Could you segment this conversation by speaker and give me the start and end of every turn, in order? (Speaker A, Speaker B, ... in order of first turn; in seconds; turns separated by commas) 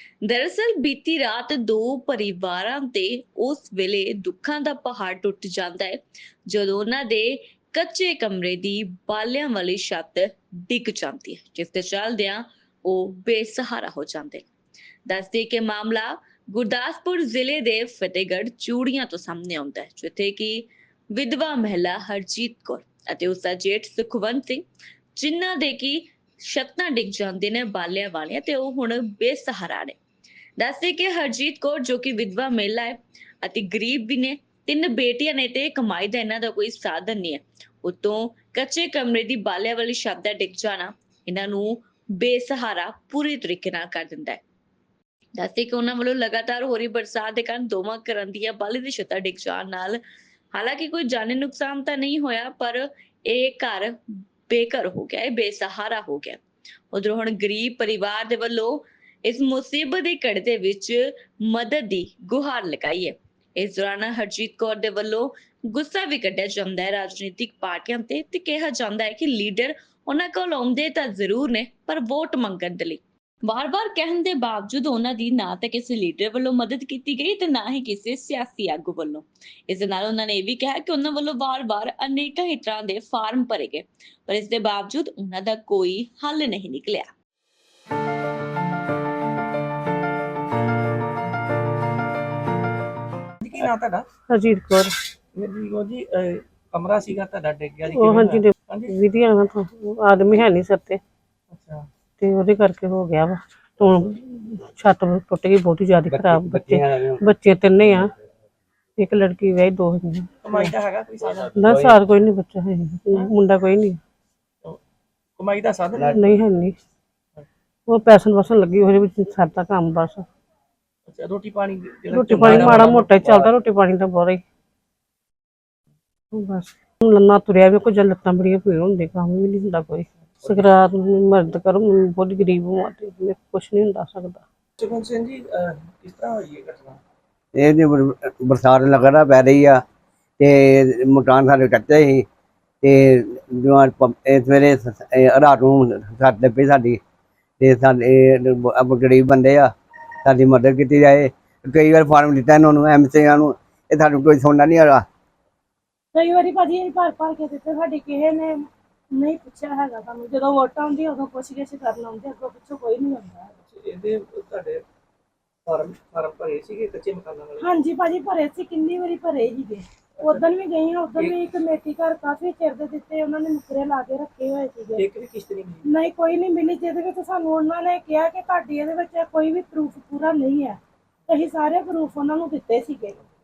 Speaker A: 0.2-14.4, Speaker A: 15.1-24.6, Speaker A: 25.2-30.0, Speaker A: 30.6-44.4, Speaker A: 45.4-50.0, Speaker A: 50.5-54.0, Speaker A: 54.5-56.4, Speaker A: 56.9-87.1, Speaker B: 93.4-94.0, Speaker C: 94.3-94.9, Speaker B: 95.3-99.0, Speaker C: 97.9-101.0, Speaker B: 101.5-101.9, Speaker C: 102.2-108.1, Speaker D: 106.1-107.2, Speaker C: 109.0-110.7, Speaker B: 110.4-111.8, Speaker C: 111.5-114.0, Speaker D: 111.7-111.9, Speaker B: 115.4-116.4, Speaker C: 116.0-116.7, Speaker C: 117.9-120.2, Speaker B: 121.1-123.5, Speaker C: 122.1-124.4, Speaker C: 126.3-134.4, Speaker B: 130.4-130.7, Speaker B: 134.8-137.0, Speaker D: 137.5-139.8, Speaker D: 140.4-142.2, Speaker D: 142.8-147.0, Speaker D: 147.6-149.7, Speaker D: 150.2-155.0, Speaker E: 156.1-163.5, Speaker B: 163.6-164.8, Speaker B: 165.7-167.7, Speaker E: 167.6-175.1, Speaker B: 170.2-170.5, Speaker B: 171.1-171.4, Speaker B: 174.9-175.9, Speaker E: 175.8-183.2